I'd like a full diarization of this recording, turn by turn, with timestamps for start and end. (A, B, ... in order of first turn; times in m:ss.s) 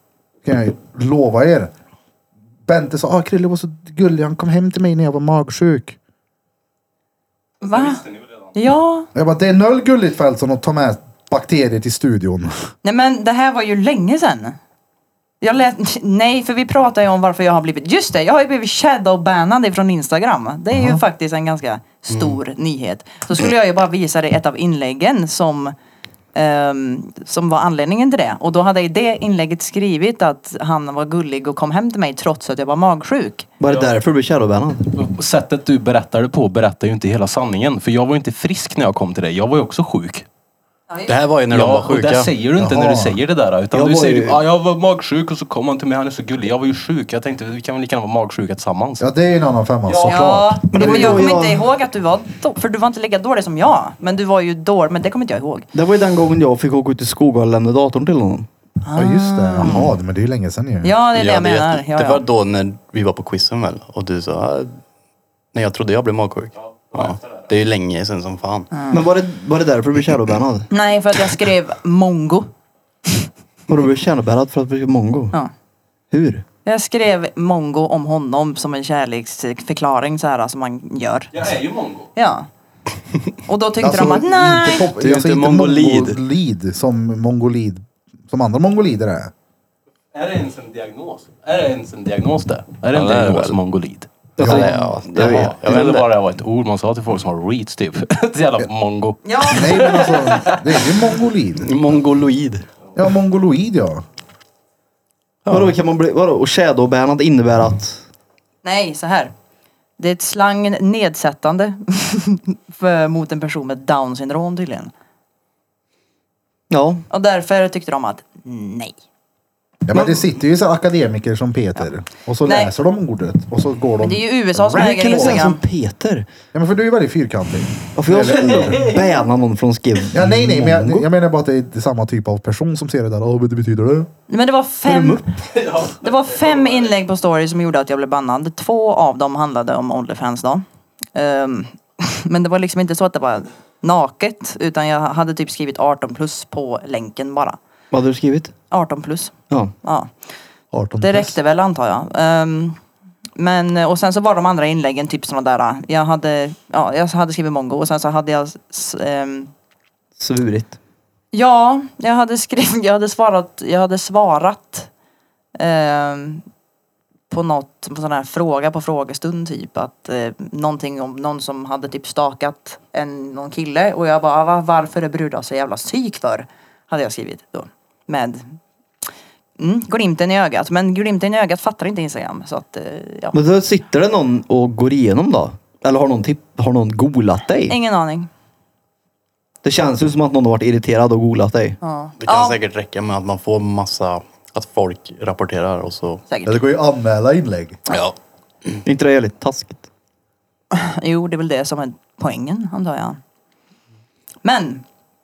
0:00.4-0:01.7 A
0:02.6-0:06.0 A
0:07.6-0:09.1 B
0:09.1-0:12.7 A
0:12.8-0:14.6 B
0:15.4-0:25.7 B
0:22.1-0:22.4 C
0:26.3-0:33.5 B
0:33.6-0:34.9 D
0:33.7-0:34.0 E
0:34.9-0:40.2 E
0:41.1-0:42.3 C
0:41.5-0:49.1 E
0:42.6-0:43.2 A
0:43.7-0:44.4 D
0:49.0-0:51.4 A
0:49.9-0:50.3 E
0:50.0-0:55.7 B
0:50.7-0:51.7 D
0:55.7-0:58.5 D
0:58.8-0:59.8 B
0:59.0-1:00.9 A
0:59.6-0:59.9 D
1:00.8-1:02.2 B
1:01.1-1:04.8 C
1:05.5-1:08.7 C
1:08.7-1:09.0 B
1:08.9-1:10.7 D
1:10.7-1:12.5 B
1:13.7-1:15.4 D
1:16.1-1:16.4 D
1:16.6-1:21.5 B
1:21.3-1:22.1 E
1:22.1-1:22.5 B
1:23.4-1:24.9 B
1:23.8-1:29.3 A
1:25.0-1:26.2 C
1:30.1-1:41.0 E
1:32.9-1:33.6 C
1:34.4-1:35.8 D
1:34.4-1:36.1 C
1:39.2-1:40.3 B
1:39.5-1:41.7 A
1:41.6-1:42.7 C
1:42.9-1:44.0 A
1:45.4-1:45.7 C
1:45.5-1:48.0 D
1:48.6-1:49.3 B
1:50.0-1:54.9 B
1:56.7-1:57.0 D
1:57.1-1:59.0 B
1:59.9-2:05.4 A
1:59.9-2:00.3 D
2:02.4-2:02.7 B
2:04.0-2:05.6 B
2:04.7-2:06.3 D
2:06.5-2:09.0 A
2:07.9-2:11.1 D
2:08.3-2:08.8 E
2:10.1-2:14.1 A
2:14.3-2:20.6 B
2:14.8-2:15.4 D
2:15.6-2:16.9 E
2:21.1-2:27.6 B
2:27.9-2:28.5 D
2:28.7-2:30.1 B
2:30.7-2:31.4 A
2:31.0-2:32.8 B
2:33.4-2:39.5 B
2:40.2-2:40.8 D
2:41.3-2:44.9 B
2:45.6-2:46.4 B
2:47.3-2:58.6 B
2:59.6-3:03.4 B
3:03.3-3:07.8 D
3:07.7-3:08.3 B
3:09.6-3:11.8 D
3:11.8-3:12.6 B
3:12.2-3:16.2 C
3:16.3-3:16.6 B
3:16.4-3:17.8 A
3:17.9-3:18.1 C
3:18.8-3:19.8 D
3:20.7-3:23.2 B
3:24.4-3:24.8 B